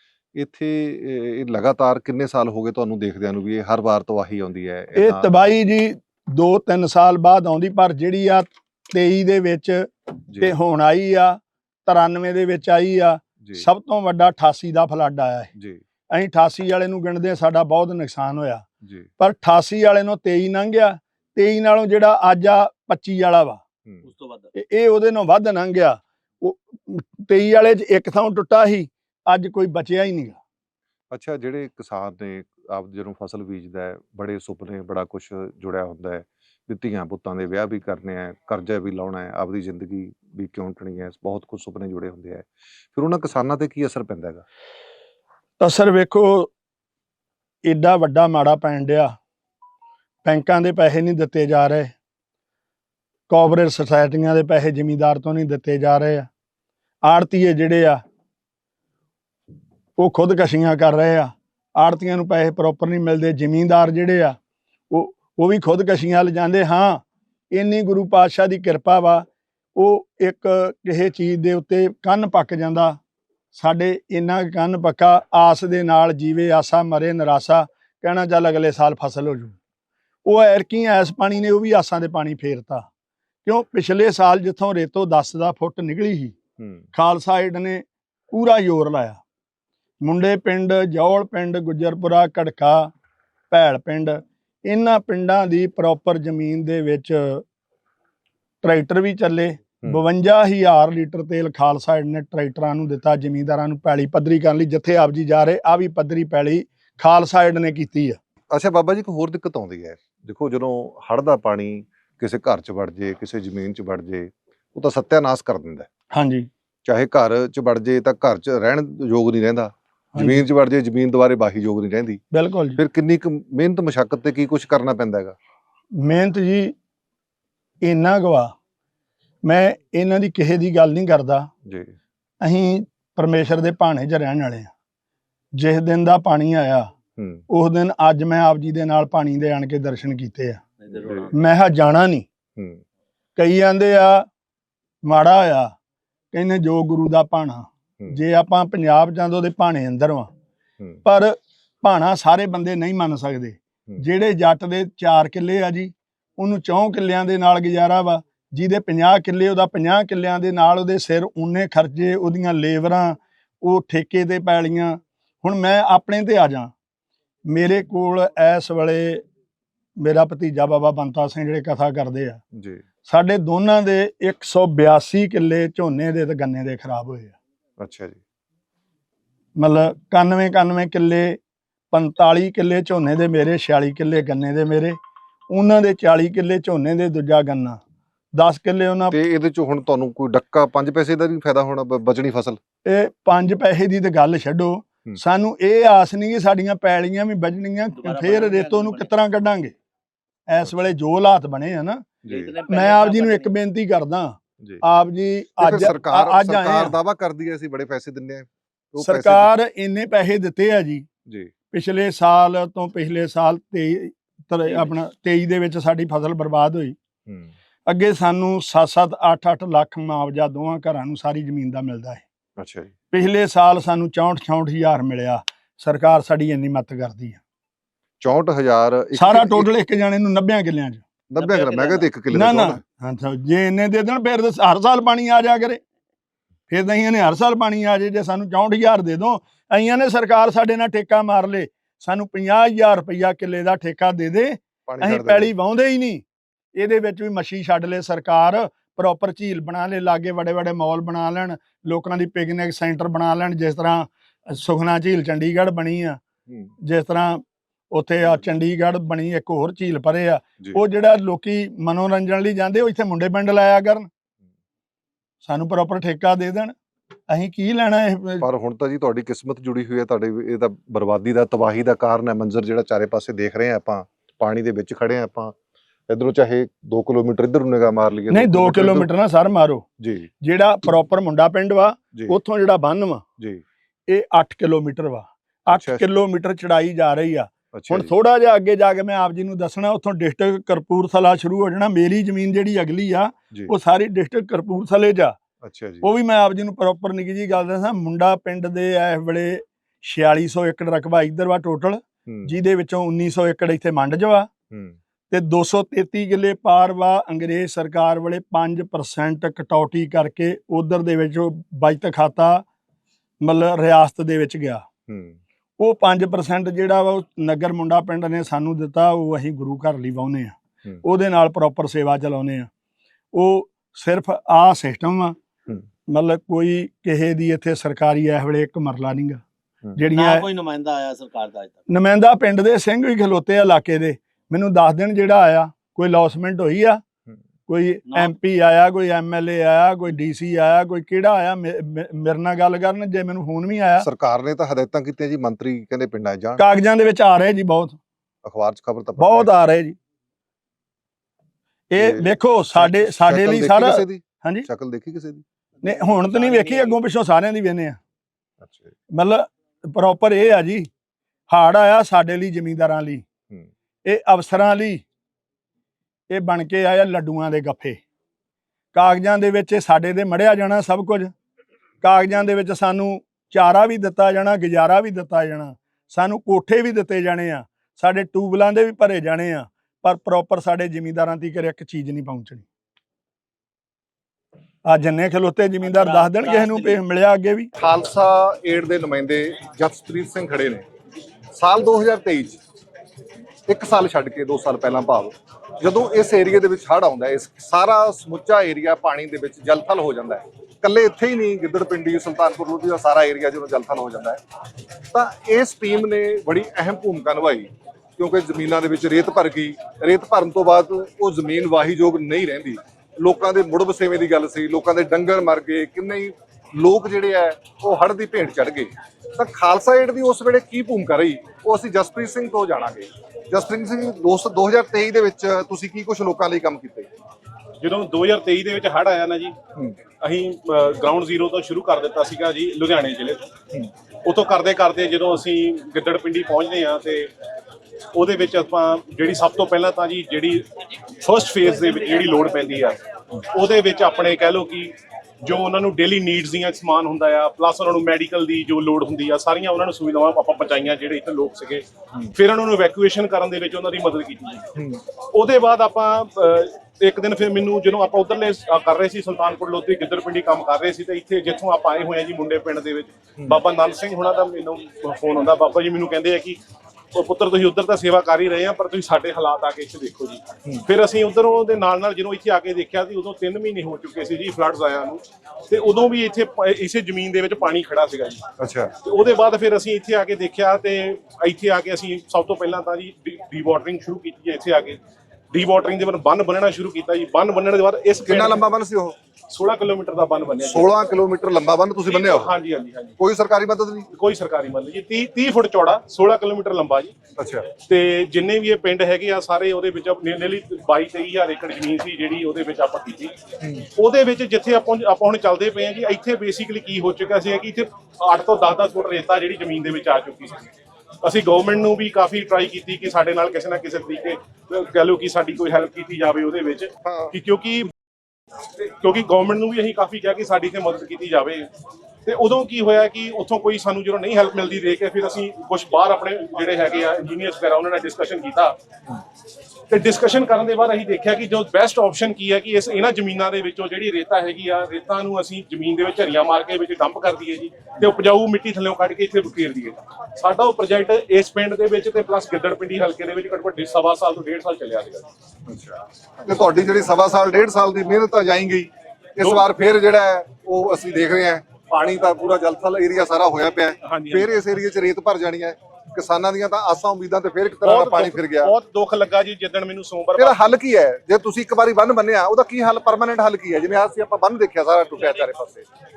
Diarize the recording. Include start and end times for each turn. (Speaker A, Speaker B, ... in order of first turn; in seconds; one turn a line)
Speaker A: 0.3-5.3
Speaker B: 5.0-15.5
Speaker A: 10.3-10.6
Speaker A: 13.4-13.7
Speaker A: 15.6-15.8
Speaker B: 16.1-18.7
Speaker A: 18.8-19.1
Speaker B: 19.2-23.6
Speaker C: 24.0-24.5
Speaker B: 24.6-30.4
Speaker A: 31.1-44.4
Speaker B: 45.6-46.5
Speaker B: 47.6-49.2
Speaker B: 50.2-51.9
Speaker B: 53.3-56.3
Speaker B: 57.0-58.0
Speaker B: 60.0-64.4
Speaker B: 64.9-73.0
Speaker B: 73.5-79.6
Speaker B: 80.3-82.9
Speaker B: 83.5-86.3
Speaker A: 86.6-86.9
Speaker B: 86.9-89.2
Speaker B: 90.0-92.9
Speaker B: 93.5-97.4
Speaker B: 98.6-108.2
Speaker A: 108.5-115.9
Speaker B: 116.1-116.5
Speaker A: 116.8-122.2
Speaker B: 120.2-120.4
Speaker B: 122.3-122.8
Speaker A: 122.8-125.4
Speaker B: 126.0-126.8
Speaker B: 127.8-128.5
Speaker B: 129.4-131.5
Speaker A: 131.7-132.0
Speaker B: 132.4-134.7
Speaker B: 135.6-136.9
Speaker A: 137.2-137.4
Speaker B: 137.5-140.6
Speaker C: 140.8-141.3
Speaker A: 140.9-141.3
Speaker B: 141.3-142.3
Speaker A: 142.6-142.8
Speaker B: 143.4-144.3
Speaker B: 145.1-145.7
Speaker B: 146.3-150.3
Speaker B: 151.1-166.7
Speaker B: 167.5-169.2
Speaker B: 170.0-172.4
Speaker A: 172.5-172.8
Speaker B: 173.1-177.3
Speaker A: 177.8-178.2
Speaker B: 179.6-181.4
Speaker B: 181.9-185.0
Speaker B: 185.5-187.8
Speaker B: 188.3-189.2
Speaker A: 189.1-192.6
Speaker B: 192.8-199.8
Speaker C: 198.0-199.1
Speaker B: 200.5-206.9
Speaker A: 202.2-202.6
Speaker C: 202.3-203.5
Speaker A: 205.6-209.5
Speaker B: 209.0-211.1
Speaker B: 211.7-217.0
Speaker A: 217.3-217.5
Speaker B: 217.9-222.2
Speaker A: 222.6-222.9
Speaker B: 223.1-227.4
Speaker A: 228.2-229.7
Speaker B: 229.2-231.0
Speaker A: 231.3-232.8
Speaker C: 231.4-232.1
Speaker B: 232.3-235.8
Speaker B: 236.7-246.2
Speaker A: 244.9-245.5
Speaker B: 246.8-256.2
Speaker A: 256.5-256.7
Speaker B: 256.8-264.1
Speaker B: 265.4-266.7
Speaker B: 267.3-268.4
Speaker A: 268.4-275.6
Speaker A: 276.1-279.1
Speaker B: 278.3-279.9
Speaker A: 280.0-280.3
Speaker B: 280.4-283.2
Speaker A: 283.4-283.6
Speaker B: 284.1-295.4
Speaker A: 285.7-286.1
Speaker A: 287.7-288.1
Speaker A: 295.6-296.1
Speaker B: 296.0-304.5
Speaker A: 302.3-302.5
Speaker A: 304.7-305.0
Speaker B: 305.3-312.6
Speaker B: 313.4-314.9
Speaker A: 315.1-315.4
Speaker B: 315.8-322.7
Speaker B: 323.3-325.4
Speaker B: 326.1-329.4
Speaker B: 330.0-330.5
Speaker C: 330.1-331.8
Speaker B: 331.9-337.0
Speaker B: 337.7-344.1
Speaker A: 344.0-346.6
Speaker B: 346.6-348.0
Speaker A: 348.4-349.5
Speaker B: 349.2-350.0
Speaker B: 351.9-354.7
Speaker A: 352.0-355.4
Speaker C: 355.8-356.9
Speaker B: 355.8-358.0
Speaker A: 358.6-358.9
Speaker B: 359.1-360.9
Speaker B: 361.5-363.2
Speaker B: 364.1-365.0
Speaker B: 366.3-368.0
Speaker B: 368.9-371.3
Speaker B: 372.0-382.7
Speaker B: 384.9-387.7
Speaker C: 386.0-386.9
Speaker A: 387.8-390.9
Speaker A: 391.5-392.6
Speaker A: 393.7-404.4
Speaker A: 405.1-427.1
Speaker D: 427.8-429.6
Speaker D: 430.2-433.4
Speaker D: 434.2-437.3
Speaker D: 438.1-440.6
Speaker D: 441.2-454.7
Speaker A: 454.8-455.0
Speaker D: 455.3-466.6
Speaker D: 467.1-478.4
Speaker A: 478.6-478.9
Speaker D: 479.0-485.0
Speaker D: 485.5-488.6
Speaker A: 488.2-489.2
Speaker D: 489.5-490.9
Speaker A: 490.6-492.5
Speaker D: 492.1-493.2
Speaker A: 493.2-494.1
Speaker D: 494.1-497.1
Speaker A: 497.4-497.7
Speaker D: 497.8-510.7
Speaker A: 503.6-503.9
Speaker D: 511.2-517.9
Speaker A: 517.0-517.4
Speaker D: 518.8-521.7
Speaker D: 522.3-528.8
Speaker D: 529.9-545.3
Speaker A: 545.7-558.7
Speaker D: 554.0-554.5
Speaker D: 557.8-560.6
Speaker A: 560.4-565.9